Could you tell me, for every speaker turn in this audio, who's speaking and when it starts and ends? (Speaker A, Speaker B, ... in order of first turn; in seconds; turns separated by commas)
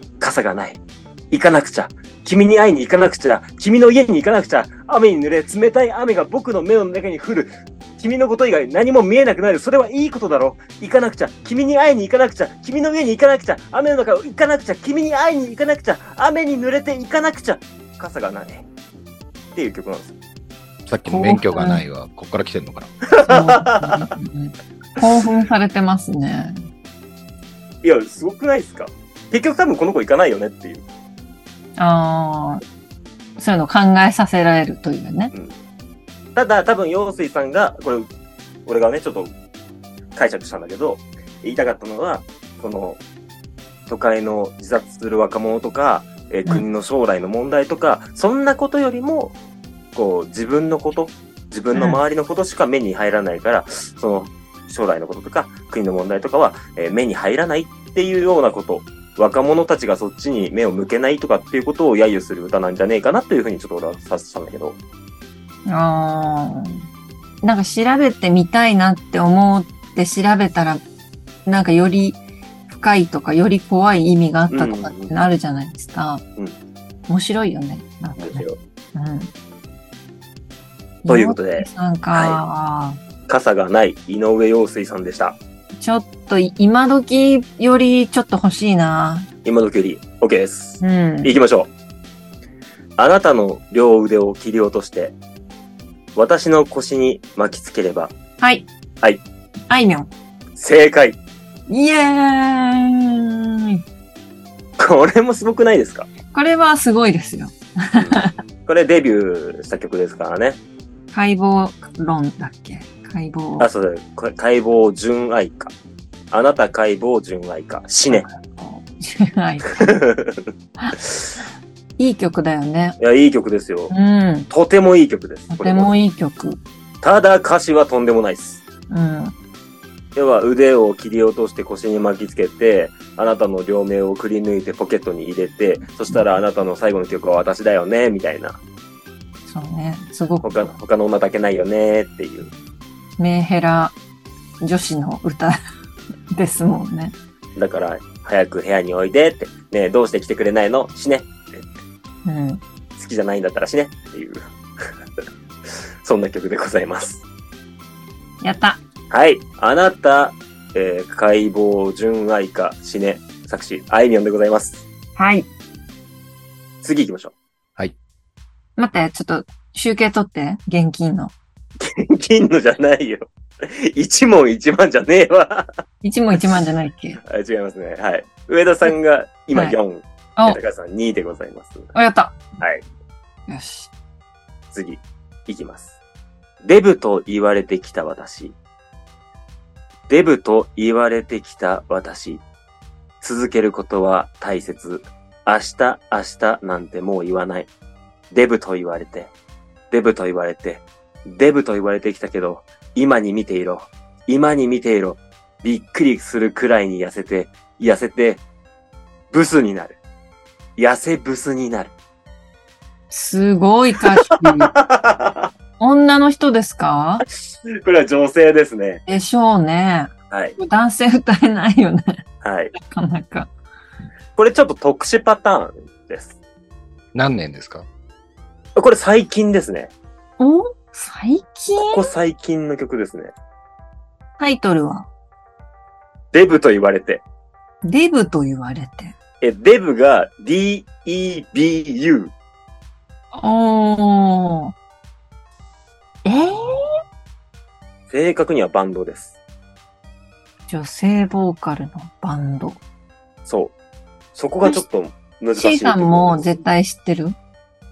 Speaker A: 0.2-0.8, Speaker A: 1.3-18.7, Speaker A: 19.6-20.1, Speaker B: 20.9-22.9, Speaker C: 21.1-21.8, Speaker A: 23.0-24.1, Speaker C: 23.3-26.6, Speaker A: 27.8-30.8, Speaker C: 31.8-32.6, Speaker C: 33.4-35.3, Speaker A: 36.4-38.1, Speaker A: 38.7-39.3, Speaker A: 40.1-43.0, Speaker A: 43.9-49.4, Speaker A: 50.0-64.8, Speaker C: 51.7-52.0, Speaker C: 65.7-66.9, Speaker C: 67.4-70.8, Speaker C: 71.5-76.2, Speaker A: 74.5-75.2, Speaker C: 77.1-78.4, Speaker A: 78.2-78.6, Speaker C: 79.0-79.3, Speaker C: 81.0-83.0, Speaker A: 81.1-82.4, Speaker A: 83.3-85.4, Speaker C: 85.8-89.3, Speaker A: 89.5-91.7, Speaker C: 90.8-91.4, Speaker A: 93.0-95.2, Speaker A: 96.2-98.1, Speaker C: 98.4-98.7, Speaker C: 99.7-100.1, Speaker A: 100.6-101.2, Speaker C: 101.7-103.8, Speaker A: 104.8-106.1, Speaker C: 106.3-108.3, Speaker A: 108.0-110.6, Speaker C: 111.1-113.7, Speaker A: 113.6-115.7, Speaker A: 116.3-118.3, Speaker C: 118.1-120.0, Speaker A: 119.7-121.3, Speaker C: 122.0-123.0, Speaker A: 123.0-123.9, Speaker C: 123.9-124.5, Speaker A: 124.5-125.9, Speaker C: 125.5-126.6, Speaker A: 127.0-128.6, Speaker C: 128.9-129.3, Speaker A: 130.2-138.6, Speaker C: 136.1-136.3, Speaker C: 139.5-140.6, Speaker A: 140.4-142.5, Speaker C: 143.2-143.9, Speaker C: 144.6-145.6, Speaker C: 146.3-147.2, Speaker A: 147.6-151.6, Speaker C: 152.2-152.6, Speaker A: 153.0-154.5, Speaker A: 156.0-157.2, Speaker C: 158.4-158.8, Speaker A: 159.1-164.8, Speaker C: 165.2-165.5, Speaker A: 166.8-167.3, Speaker C: 168.8-171.3, Speaker A: 171.8-175.8, Speaker C: 176.0-177.2, Speaker A: 177.2-181.9, Speaker C: 181.9-182.4, Speaker C: 183.5-183.9, Speaker A: 184.7-186.0, Speaker A: 186.6-188.6, Speaker A: 190.1-192.4, Speaker A: 193.2-197.7, Speaker A: 198.3-199.3, Speaker A: 199.9-208.4, Speaker A: 209.3-210.0, Speaker A: 210.8-211.9, Speaker C: 213.1-214.7, Speaker A: 214.2-215.5, Speaker C: 215.8-217.2, Speaker A: 217.7-219.0, Speaker C: 219.1-222.2, Speaker A: 220.3-220.6, Speaker A: 222.4-222.7, Speaker C: 222.8-223.5, Speaker A: 224.4-226.4, Speaker B: 227.1-227.9, Speaker A: 228.8-229.9, Speaker C: 230.4-232.1, Speaker A: 231.8-233.3, Speaker C: 234.4-235.1, Speaker A: 236.3-237.2, Speaker C: 237.8-239.1, Speaker A: 239.4-242.3, Speaker C: 243.3-244.7, Speaker C: 246.2-246.8, Speaker A: 248.1-249.4, Speaker C: 250.7-252.8, Speaker A: 253.5-253.7, Speaker A: 254.3-256.6, Speaker C: 255.6-257.4